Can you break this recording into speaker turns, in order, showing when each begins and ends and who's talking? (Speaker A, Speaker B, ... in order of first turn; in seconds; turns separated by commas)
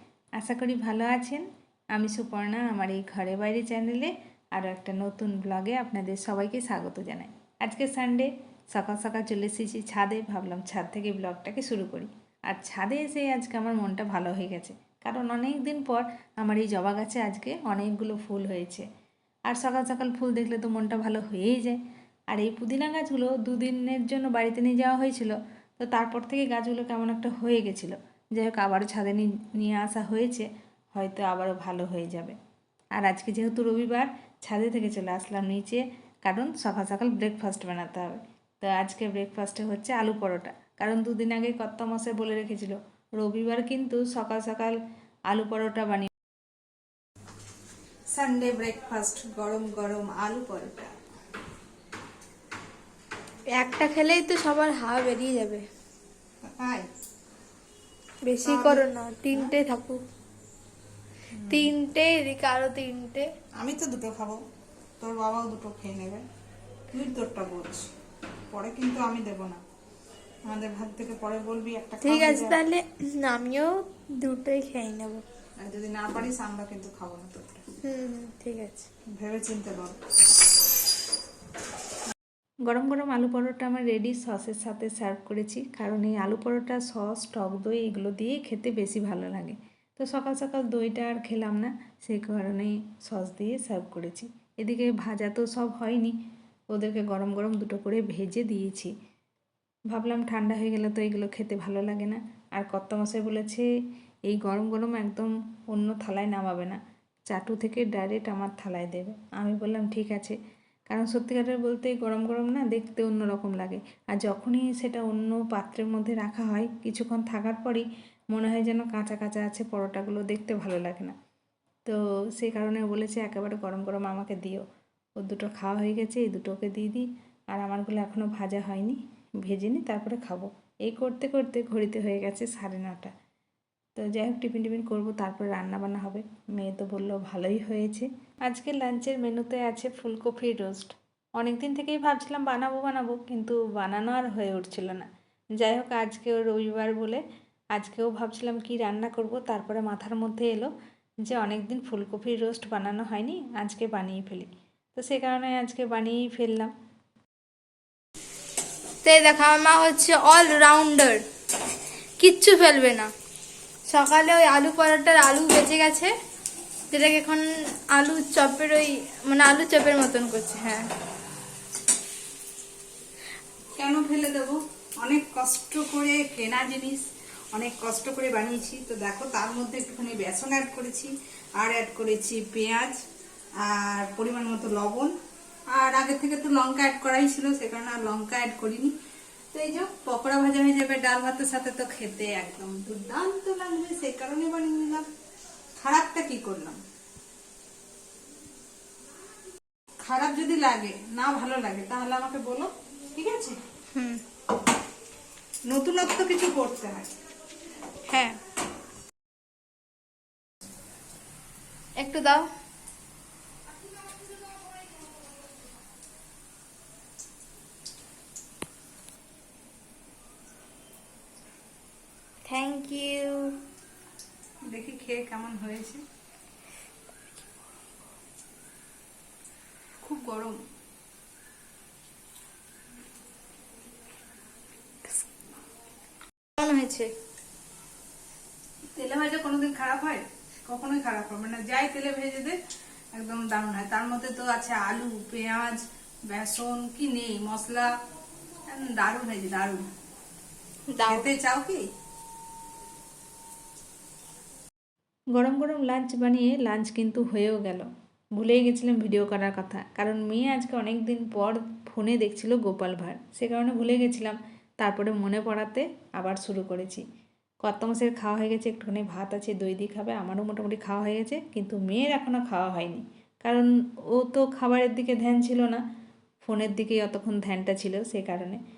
Speaker A: 0.4-18.9, Speaker A: 19.5-21.8, Speaker A: 22.3-32.4, Speaker A: 33.0-46.1, Speaker B: 48.2-48.8, Speaker A: 48.5-50.4, Speaker B: 50.5-50.9, Speaker C: 53.5-55.6, Speaker C: 58.3-60.0, Speaker C: 61.5-63.3, Speaker B: 63.6-64.3, Speaker B: 65.0-66.1, Speaker B: 66.9-67.7, Speaker B: 68.5-69.6, Speaker B: 70.5-72.5, Speaker C: 72.0-75.2, Speaker A: 72.1-72.5, Speaker A: 75.7-77.6, Speaker B: 75.7-77.5, Speaker C: 77.8-78.9, Speaker B: 79.2-79.8, Speaker A: 79.5-79.9, Speaker A: 82.7-96.1, Speaker A: 96.7-98.9, Speaker A: 99.9-103.7, Speaker A: 104.2-106.8, Speaker A: 107.3-110.4, Speaker A: 110.9-121.1, Speaker A: 121.8-124.6, Speaker A: 125.2-133.1, Speaker A: 133.9-145.1, Speaker A: 145.6-147.2, Speaker A: 147.7-150.7, Speaker A: 151.2-156.7, Speaker C: 159.0-161.2, Speaker C: 162.2-163.1, Speaker C: 163.9-166.1, Speaker C: 166.9-170.9, Speaker B: 173.9-174.2, Speaker B: 175.0-176.8, Speaker B: 177.6-181.1, Speaker B: 181.6-182.8, Speaker B: 183.6-184.9, Speaker B: 185.8-188.5, Speaker A: 187.2-188.9, Speaker B: 189.5-191.6, Speaker A: 189.7-190.1, Speaker A: 190.6-192.5, Speaker B: 192.2-194.8, Speaker A: 193.7-194.2, Speaker B: 195.8-196.5, Speaker B: 200.1-202.5, Speaker A: 203.2-203.5, Speaker C: 203.9-204.2, Speaker B: 205.7-207.0, Speaker C: 208.1-208.4, Speaker C: 212.0-212.4, Speaker C: 222.4-223.6, Speaker A: 225.1-225.9, Speaker B: 230.0-230.5, Speaker C: 236.6-237.1, Speaker B: 239.0-239.3, Speaker A: 239.9-240.2, Speaker B: 240.7-241.9, Speaker A: 241.4-242.5, Speaker B: 243.2-245.5, Speaker B: 246.3-247.9, Speaker B: 248.8-249.8, Speaker C: 250.9-251.3, Speaker A: 251.1-251.8, Speaker A: 255.3-267.0, Speaker A: 267.6-275.8, Speaker A: 276.4-278.6